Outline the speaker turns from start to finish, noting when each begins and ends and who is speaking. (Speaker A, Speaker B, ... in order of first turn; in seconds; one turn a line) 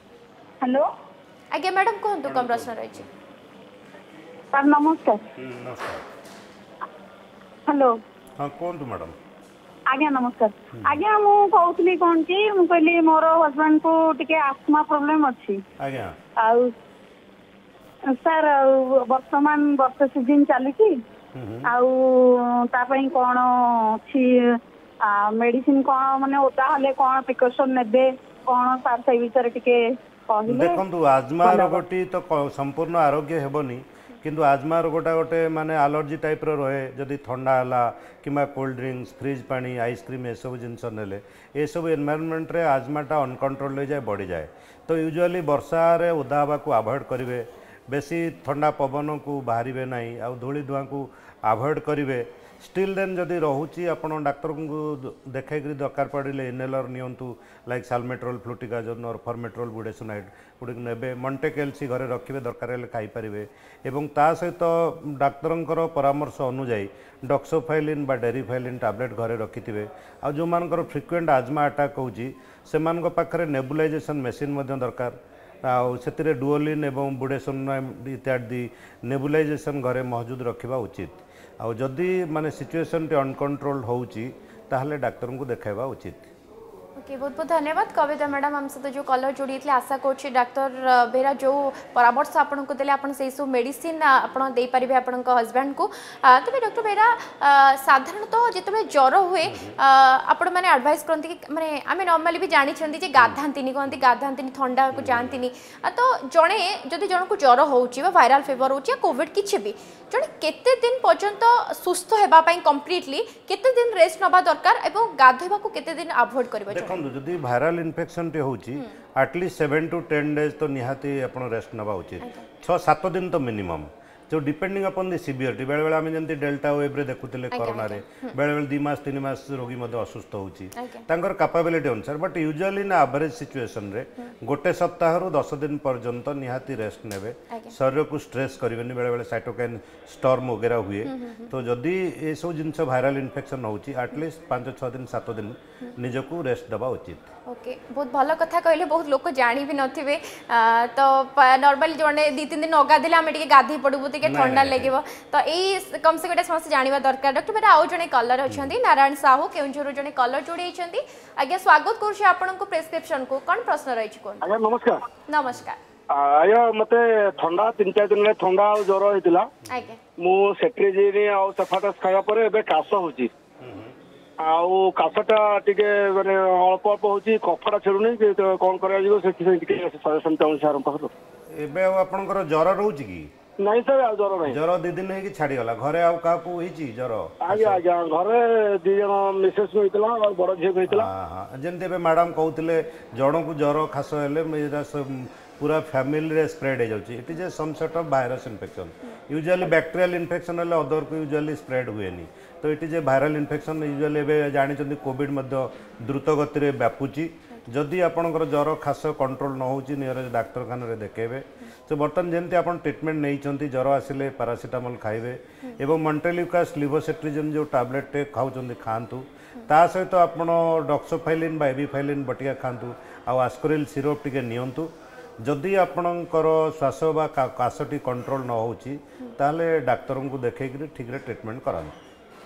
Speaker A: 0.6-0.9
Speaker B: 1.5-3.1
Speaker C: 2.2-3.0
Speaker A: 4.5-5.2
Speaker C: 5.3-6.0
Speaker A: 7.7-7.9
Speaker C: 8.4-9.2
Speaker A: 9.9-15.6
Speaker C: 10.7-11.0
Speaker C: 15.8-16.1
Speaker A: 16.4-16.7
Speaker A: 18.1-21.0
Speaker C: 21.3-21.7
Speaker A: 21.6-30.8
Speaker C: 30.5-86.3
Speaker A: 31.4-31.8
Speaker B: 87.0-117.0
Speaker C: 99.4-99.8
Speaker C: 104.9-105.4
Speaker C: 116.7-147.3
Speaker B: 122.2-122.5
Speaker B: 127.5-128.3
Speaker B: 130.8-131.1
Speaker B: 141.0-141.5
Speaker B: 147.5-164.4
Speaker C: 154.2-154.9
Speaker C: 158.5-158.8
Speaker D: 164.4-165.0
Speaker B: 165.3-165.8
Speaker D: 166.1-169.5
Speaker B: 169.7-170.0
Speaker D: 170.2-173.3
Speaker C: 173.6-173.9
Speaker D: 174.4-181.1
Speaker C: 181.5-183.3
Speaker D: 183.6-184.6
Speaker C: 184.4-187.8
Speaker D: 187.4-191.1
Speaker C: 190.9-224.9
Speaker C: 225.4-231.9